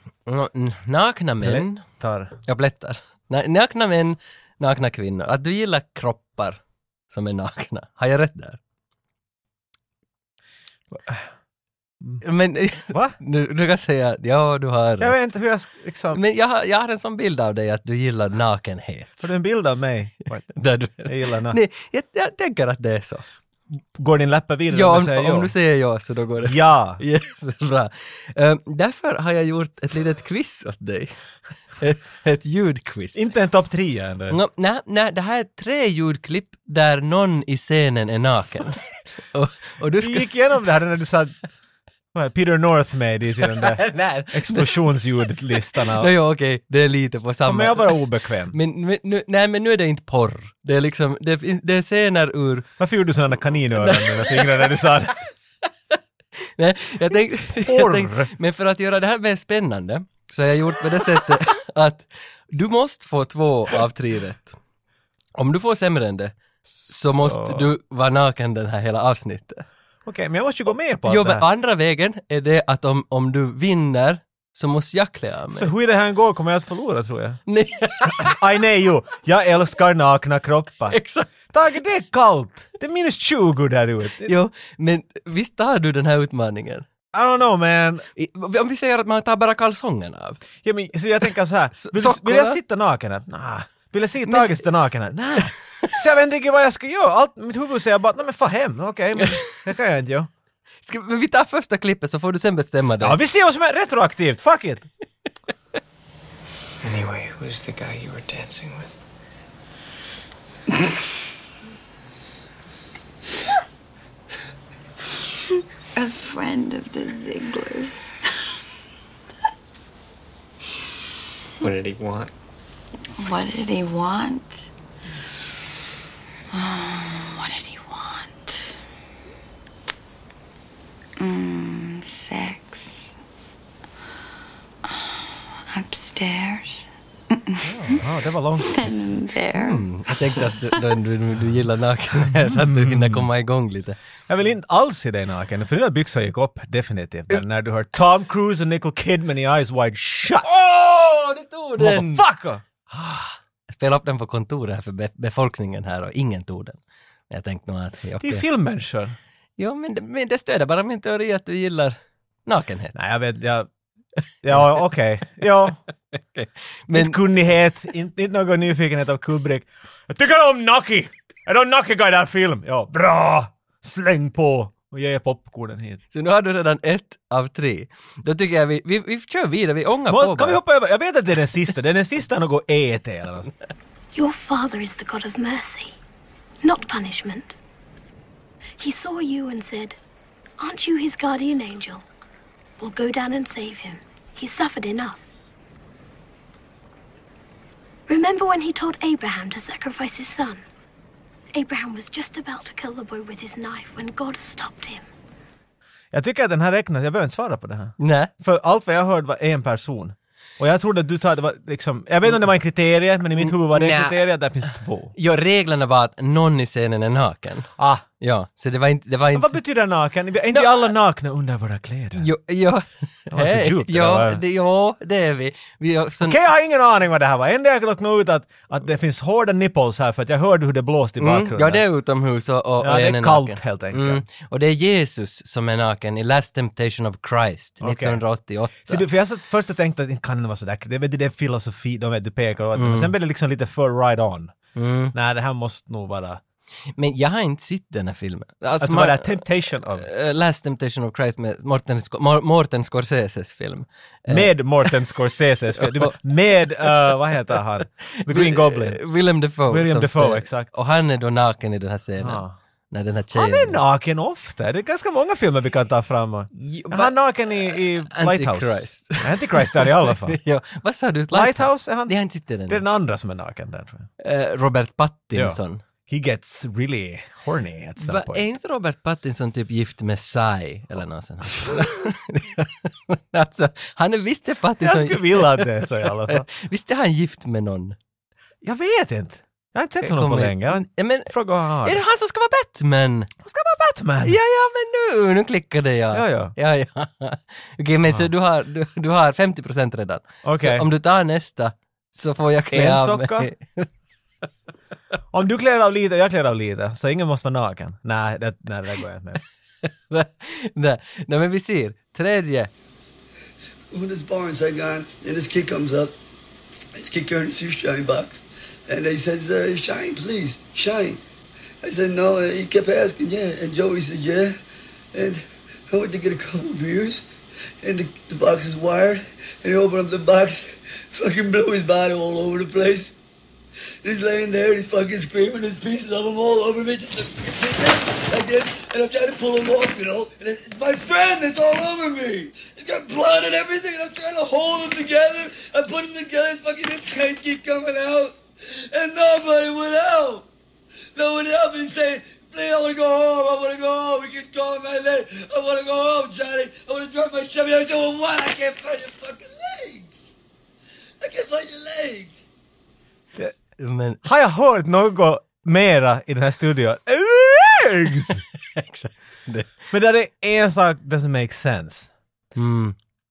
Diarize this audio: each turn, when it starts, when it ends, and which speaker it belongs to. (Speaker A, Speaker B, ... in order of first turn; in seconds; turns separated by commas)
Speaker A: 0.3-1.8, Speaker B: 1.4-2.3, Speaker A: 2.5-8.6, Speaker B: 10.9-11.2, Speaker A: 12.2-15.2, Speaker B: 12.9-13.2, Speaker B: 15.0-16.2, Speaker A: 16.1-19.3, Speaker B: 19.2-20.5, Speaker A: 20.5-23.2, Speaker B: 21.0-21.6, Speaker B: 23.9-25.5, Speaker A: 24.7-31.2, Speaker B: 26.4-27.0, Speaker A: 31.8-33.3, Speaker B: 33.1-34.4, Speaker A: 34.3-40.3, Speaker B: 39.9-41.3, Speaker B: 42.1-46.1, Speaker A: 43.5-44.8, Speaker A: 45.8-52.7, Speaker B: 47.5-48.6, Speaker B: 52.8-55.2, Speaker A: 53.8-54.8, Speaker A: 56.6-64.6, Speaker B: 57.5-58.3, Speaker A: 65.4-66.3, Speaker A: 66.9-69.7, Speaker B: 67.2-67.7, Speaker B: 70.1-71.4, Speaker A: 71.1-75.7, Speaker B: 75.5-77.4, Speaker A: 77.5-78.4, Speaker B: 78.1-81.0, Speaker A: 80.9-81.3, Speaker B: 81.5-84.4, Speaker A: 84.2-86.9, Speaker B: 87.1-88.1, Speaker A: 88.2-90.4, Speaker B: 90.6-100.3, Speaker A: 91.8-92.6, Speaker A: 94.3-94.6, Speaker A: 100.8-103.2, Speaker B: 103.0-104.9, Speaker C: 106.8-108.9, Speaker D: 116.0-118.1, Speaker C: 121.6-122.3, Speaker D: 123.2-124.7, Speaker D: 126.5-128.8, Speaker D: 131.2-133.2, Speaker D: 134.9-135.2, Speaker D: 135.7-141.0, Speaker B: 137.6-138.9, Speaker A: 139.6-144.0, Speaker B: 142.4-143.2, Speaker B: 144.3-150.5, Speaker A: 150.3-152.2, Speaker B: 151.8-152.6, Speaker A: 152.9-158.4, Speaker B: 158.2-159.2, Speaker A: 159.6-163.0, Speaker B: 162.9-163.7, Speaker B: 164.4-165.8, Speaker A: 166.1-167.2, Speaker B: 166.9-176.0, Speaker A: 176.1-180.6, Speaker B: 180.1-183.5, Speaker E: 184.2-186.0, Speaker E: 186.6-187.6, Speaker E: 188.8-190.0, Speaker E: 190.6-192.1, Speaker E: 192.8-195.2, Speaker E: 198.1-200.6, Speaker E: 201.5-205.1, Speaker B: 206.1-215.1, Speaker A: 208.0-208.3, Speaker A: 213.4-214.2, Speaker A: 215.2-217.7, Speaker B: 217.8-218.1, Speaker A: 218.2-219.6, Speaker B: 219.3-222.3, Speaker A: 222.1-226.4, Speaker B: 223.3-224.4, Speaker B: 226.2-231.8, Speaker A: 231.2-239.0, Speaker B: 232.8-234.2, Speaker B: 237.8-238.2, Speaker B: 238.8-244.5, Speaker A: 242.8-243.1, Speaker A: 244.8-245.1, Speaker B: 245.1-246.4, Speaker A: 247.0-249.4, Speaker B: 248.8-250.1, Speaker A: 249.9-254.9, Speaker B: 254.3-259.0, Speaker A: 255.8-256.2, Speaker A: 258.3-263.8, Speaker B: 259.7-260.7, Speaker B: 262.2-262.6, Speaker B: 263.3-270.4, Speaker A: 266.6-272.8, Speaker B: 271.3-272.1, Speaker B: 272.7-274.1, Speaker A: 274.2-275.8, Speaker B: 275.3-278.4, Speaker A: 278.0-288.0, Speaker B: 284.8-286.5, Speaker B: 288.6-292.0, Speaker A: 290.0-291.3, Speaker A: 291.8-293.3, Speaker B: 293.4-294.4, Speaker A: 294.2-303.9, Speaker B: 296.1-296.5, Speaker B: 300.4-300.9, Speaker B: 302.7-303.5, Speaker B: 305.3-309.4, Speaker A: 309.8-312.7, Speaker F: 313.9-316.1, Speaker F: 317.0-321.2, Speaker F: 321.8-324.6, Speaker F: 325.1-327.3, Speaker F: 327.8-333.1, Speaker F: 334.0-350.5, Speaker F: 351.1-360.3, Speaker F: 361.2-362.4, Speaker A: 363.8-364.2, Speaker B: 364.2-368.4, Speaker A: 368.4-369.9, Speaker B: 369.9-372.1, Speaker A: 372.6-373.0